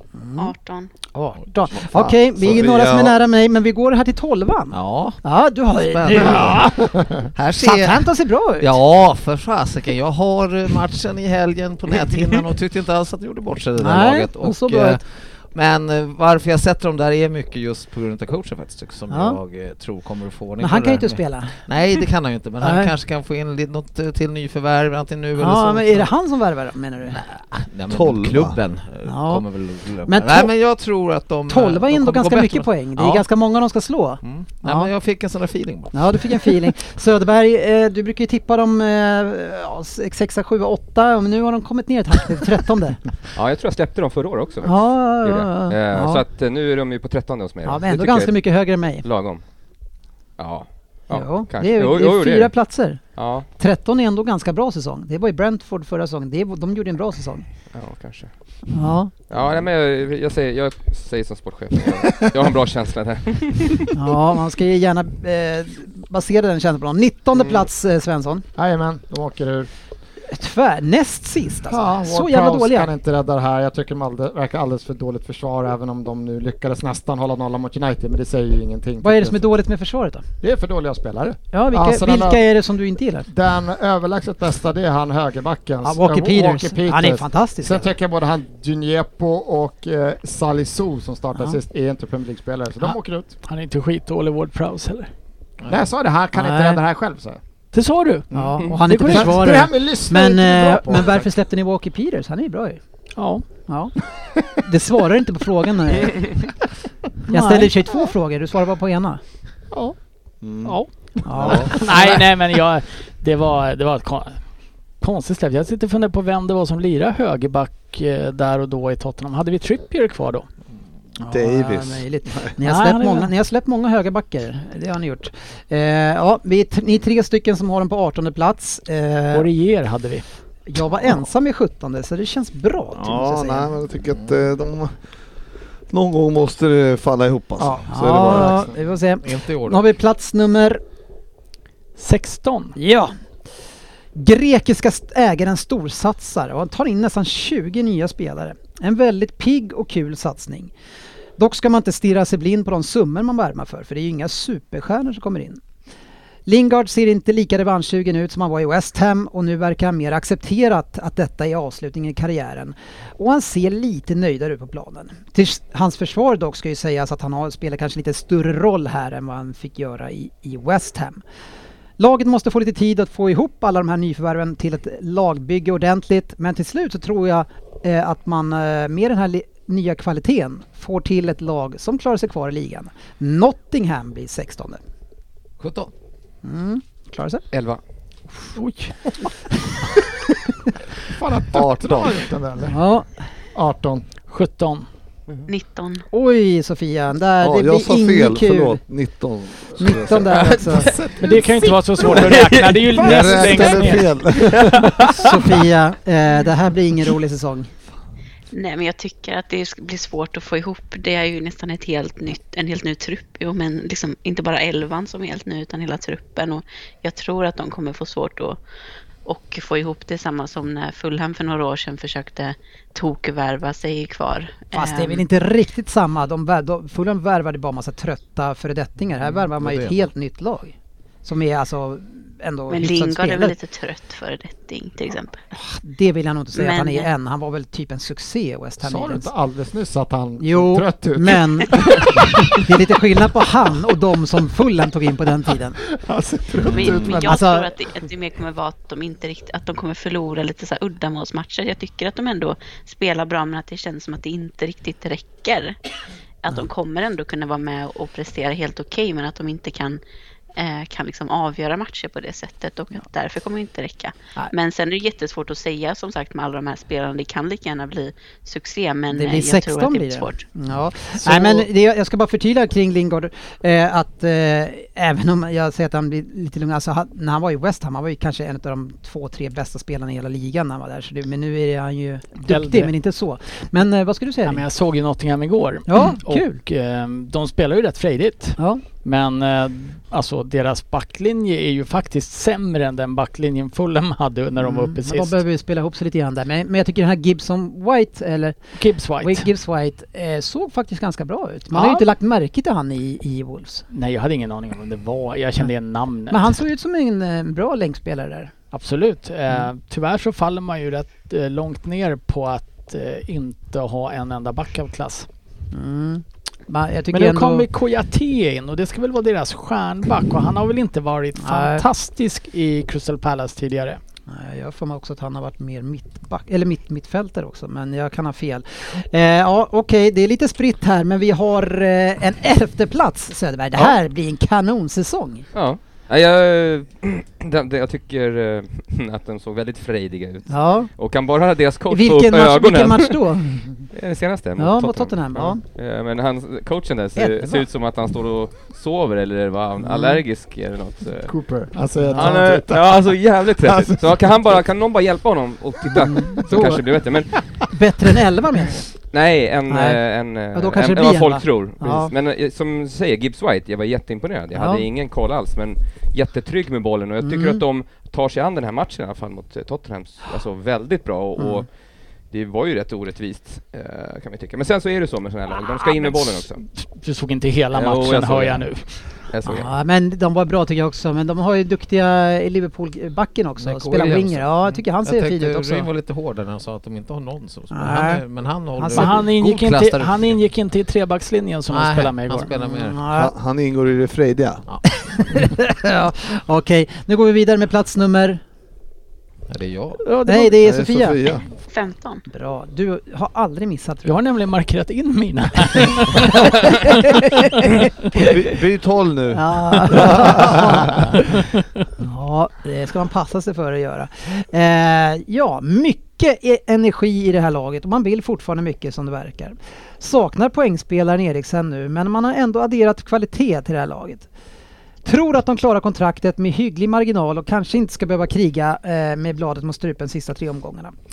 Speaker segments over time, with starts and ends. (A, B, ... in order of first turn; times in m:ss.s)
0:00.2-0:00.5 A
0:00.4-0:00.9 B
0:01.1-0:06.8 A
0:02.1-0:03.2 C
0:04.7-0:05.2 D
0:05.9-0:06.7 D
0:06.2-0:07.3 E
0:07.4-0:26.1 D
0:07.6-0:08.7 A
0:13.8-0:15.0 A
0:19.1-0:19.4 A
0:20.6-0:21.6 A
0:22.6-0:22.9 A
0:25.4-0:27.2 A
0:27.1-0:33.3 D
0:27.9-0:28.6 C
0:29.0-0:29.4 A
0:30.0-0:30.5 A
0:31.5-0:34.9 A
0:34.2-0:36.6 D
0:35.9-0:43.0 A
0:43.4-0:48.3 F
0:44.6-0:46.2 A
0:47.6-0:49.0 A
0:49.0-0:49.4 F
0:50.4-0:52.5 F
0:51.1-0:53.0 A
0:53.2-0:53.5 F
0:53.6-0:57.4 A
0:57.7-0:58.3 F
0:58.7-0:59.1 A
0:59.3-1:04.0 F
1:03.9-1:08.4 A
1:08.6-1:09.7 E
1:10.3-1:12.9 A
1:11.7-1:19.4 E
1:19.0-1:20.3 A
1:20.4-1:22.4 E
1:21.5-1:23.3 A
1:23.3-1:33.3 E
1:25.8-1:27.9 A
1:32.8-1:35.1 G
1:35.7-1:37.4 E
1:36.4-1:36.8 A
1:37.7-1:39.6 G
1:38.3-1:42.8 A
1:38.3-1:41.3 E
1:43.2-1:43.4 G
1:43.7-1:44.0 A
1:44.6-1:46.4 A
1:47.3-1:47.7 G
1:47.3-1:49.2 A
1:50.4-1:50.8 C
1:50.6-1:50.9 G
1:51.2-1:52.1 A
1:51.4-1:51.7 C
1:51.6-1:54.4 G
1:55.0-2:00.5 G
2:01.2-2:09.5 A
2:01.3-2:02.5 C
2:02.6-2:03.3 G
2:09.3-2:10.2 G
2:10.7-2:13.8 A
2:13.0-2:15.0 C
2:15.9-2:18.6 C
2:17.6-2:20.8 A
2:19.2-2:19.8 D
2:22.0-2:22.8 G
2:22.8-2:23.1 A
2:24.2-2:30.7 A
2:31.4-2:35.6 A
2:36.5-2:51.2 A
2:52.0-3:04.8 A
3:05.6-3:05.9 D
3:06.4-3:07.4 A
3:07.5-3:07.8 F
3:08.6-3:09.0 G
3:11.1-3:12.8 E
3:11.5-3:12.2 C
3:12.7-3:13.1 A
3:13.6-3:14.0 E
3:14.3-3:14.9 G
3:15.5-3:16.1 B
3:16.1-3:18.8 A
3:17.4-3:20.5 C
3:19.8-3:20.9 A
3:20.4-3:20.9 F
3:20.6-3:21.7 E
3:21.2-3:24.2 G
3:22.1-3:23.0 F
3:23.0-3:25.1 C
3:23.2-3:23.9 E
3:24.4-3:25.2 F
3:25.1-3:27.7 A
3:28.5-3:38.6 B
3:39.2-3:45.2 B
3:44.7-3:53.6 A
3:49.2-3:50.1 D
3:52.7-3:55.4 B
3:55.5-3:59.3 A
3:56.5-3:57.1 B
3:58.8-4:02.7 E
4:00.4-4:01.9 A
4:02.5-4:05.8 A
4:05.8-4:07.4 E
4:06.6-4:15.8 B
4:07.1-4:07.7 A
4:16.4-4:20.0 B
4:20.6-4:30.5 B
4:29.1-4:44.6 A
4:42.4-4:43.0 G
4:44.4-4:55.4 G
4:45.9-4:46.6 A
4:48.6-4:48.8 A
4:54.6-4:58.6 A
4:58.8-4:59.5 G
4:59.2-5:03.8 A
5:01.7-5:02.1 G
5:03.9-5:06.5 G
5:06.3-5:08.5 A
5:08.7-5:15.3 G
5:15.7-5:17.7 A
5:17.1-5:24.0 G
5:21.4-5:21.8 A
5:24.3-5:35.5 A
5:35.5-5:43.2 F
5:40.5-5:40.9 A
5:41.9-5:43.8 A
5:43.9-5:51.3 F
5:44.6-5:45.6 A
5:47.2-5:47.7 A
5:49.8-5:50.2 A
5:51.3-5:54.6 E
5:52.0-5:52.4 A
5:52.2-5:57.5 F
5:56.0-5:56.8 A
5:56.0-5:56.8 E
5:57.7-5:58.9 A
5:59.1-6:11.7 F
5:59.7-6:02.1 A
6:04.6-6:04.8 A
6:07.2-6:07.6 A
6:11.4-6:11.6 A
6:12.3-6:16.6 F
6:16.8-6:19.0 G
6:17.7-6:18.7 F
6:19.3-6:19.7 F
6:19.5-6:25.9 A
6:23.6-6:30.4 D
6:27.7-6:28.2 A
6:28.8-6:29.2 A
6:29.0-6:32.5 G
6:31.7-6:33.0 D
6:32.6-6:33.3 A
6:33.1-6:34.6 C
6:35.0-6:38.4 A
6:39.5-6:40.0 D
6:40.0-6:40.7 G
6:40.2-6:41.3 A
6:40.6-6:41.4 C
6:41.7-6:42.2 B
6:42.3-6:44.1 A
6:44.0-6:47.3 G
6:46.5-6:47.9 A
6:48.1-6:51.1 C
6:49.3-6:51.2 A
6:52.0-7:04.3 A
7:05.0-7:10.9 A